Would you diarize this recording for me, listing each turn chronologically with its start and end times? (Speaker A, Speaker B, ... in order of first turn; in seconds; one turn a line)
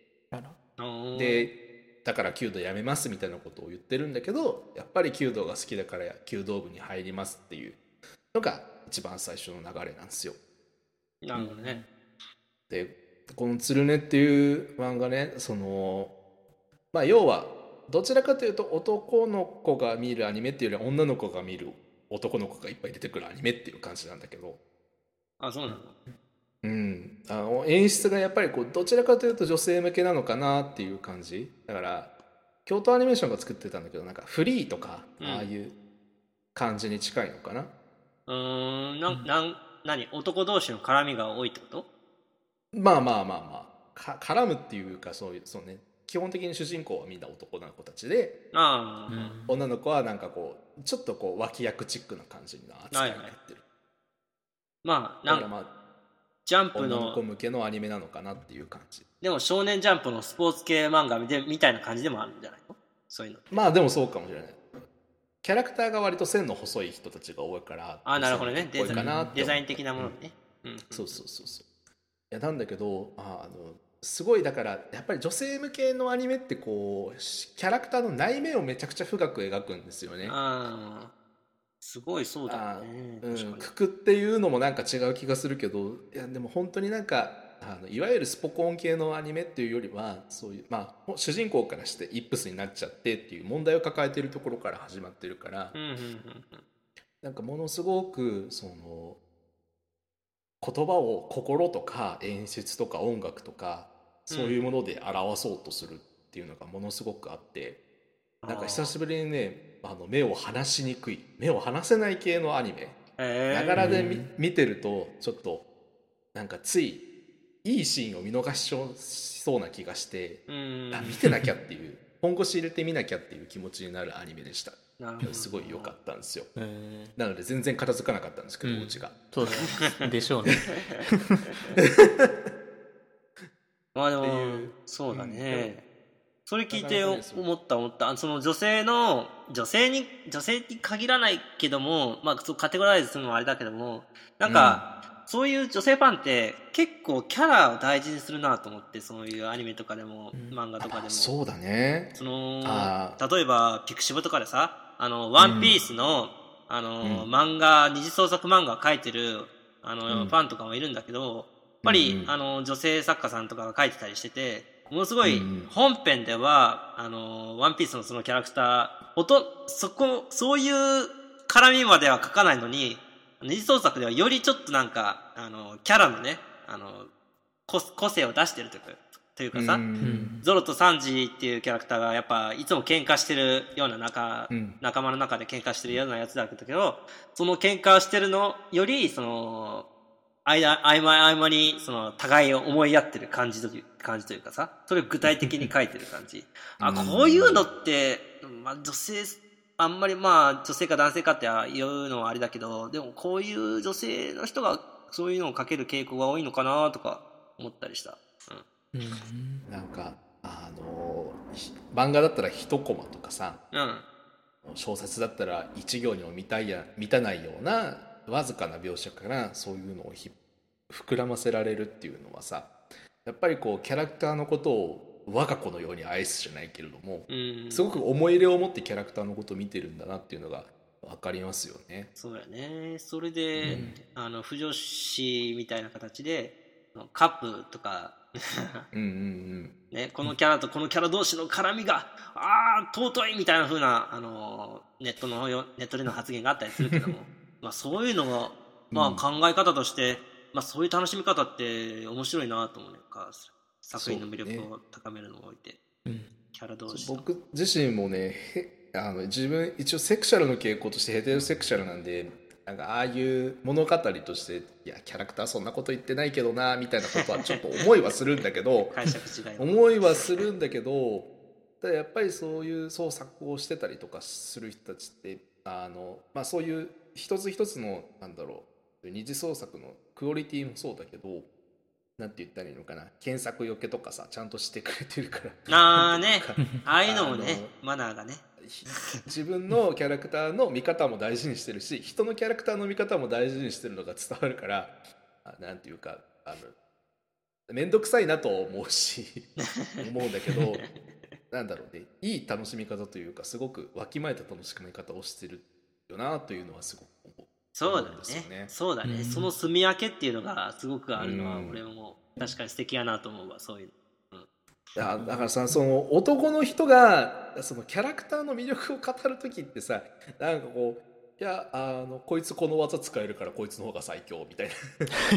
Speaker A: 0.3-0.6
Speaker B: 0.8-1.5
Speaker C: 1.1-7.8
Speaker C: 8.3-10.4
Speaker B: 11.2-11.8
Speaker A: 11.3-11.8
Speaker C: 12.7-16.1
Speaker C: 16.9-24.6
Speaker B: 25.4-26.0
Speaker C: 26.6-32.1
Speaker C: 32.6-35.7
Speaker B: 35.2-35.5
Speaker C: 36.5-37.7
Speaker B: 38.3-41.9
Speaker C: 42.7-48.4
Speaker B: 48.5-49.3
Speaker A: 49.1-49.6
Speaker C: 49.5-53.6
Speaker B: 52.9-53.3
Speaker B: 54.8-55.5
Speaker C: 55.3-55.7
Speaker B: 56.5-57.2
Speaker C: 56.7-59.0
Speaker B: 59.2-63.6
Speaker C: 63.5-64.6
Speaker C: 65.4-70.1
Speaker B: 68.0-71.2
Speaker A: 68.9-69.5
Speaker C: 70.9-71.6
Speaker C: 72.3-80.4
Speaker B: 80.2-81.1
Speaker B: 81.8-83.7
Speaker C: 82.5-95.7
Speaker B: 95.7-96.6
Speaker C: 97.2-99.2
Speaker C: 100.6-107.8
Speaker B: 104.3-104.7
Speaker B: 108.4-108.9
Speaker C: 108.5-113.0
Speaker B: 113.2-114.0
Speaker C: 113.5-115.7
Speaker A: 113.8-114.3
Speaker C: 116.3-117.0
Speaker C: 117.6-126.5
Speaker B: 120.5-121.2
Speaker A: 121.2-121.5
Speaker B: 125.0-125.9
Speaker A: 126.6-127.2
Speaker C: 127.2-129.2
Speaker A: 128.6-131.4
Speaker B: 129.4-130.0
Speaker C: 131.8-132.4
Speaker B: 133.9-135.8
Speaker C: 134.2-135.7
Speaker B: 136.5-151.3
Speaker C: 136.7-137.4
Speaker C: 144.4-144.9
Speaker C: 150.8-152.1
Speaker B: 152.1-177.1
Speaker C: 152.6-153.2
Speaker C: 155.4-155.8
Speaker C: 157.0-157.3
Speaker C: 160.1-160.3
Speaker C: 161.8-162.3
Speaker C: 165.2-165.7
Speaker B: 177.7-179.8
Speaker C: 179.5-180.3
Speaker A: 180.0-180.4
Speaker B: 180.4-189.9
Speaker C: 184.5-184.8
Speaker B: 190.4-208.6
Speaker C: 196.8-197.7
Speaker A: 208.9-209.7
Speaker C: 209.7-213.6
Speaker B: 213.7-214.0
Speaker C: 214.7-220.3
Speaker C: 220.9-222.7
Speaker C: 223.2-232.1
Speaker B: 227.3-228.0
Speaker B: 232.2-238.8
Speaker C: 233.6-233.9
Speaker A: 233.7-234.0
Speaker C: 238.9-239.7
Speaker B: 239.9-255.8
Speaker C: 248.9-249.2
Speaker C: 253.9-254.7
Speaker A: 256.1-256.3
Speaker B: 256.5-257.2
Speaker C: 256.9-269.0
Speaker B: 268.9-270.4
Speaker C: 269.6-271.3
Speaker C: 271.8-281.5
Speaker C: 282.2-287.7
Speaker B: 285.7-289.2
Speaker C: 288.6-296.8
Speaker C: 297.7-299.5
Speaker B: 299.6-300.9
Speaker C: 300.0-300.8
Speaker C: 301.5-308.7
Speaker B: 307.7-314.5
Speaker A: 309.0-309.5
Speaker C: 311.1-311.8
Speaker C: 315.0-325.1
Speaker A: 315.1-315.5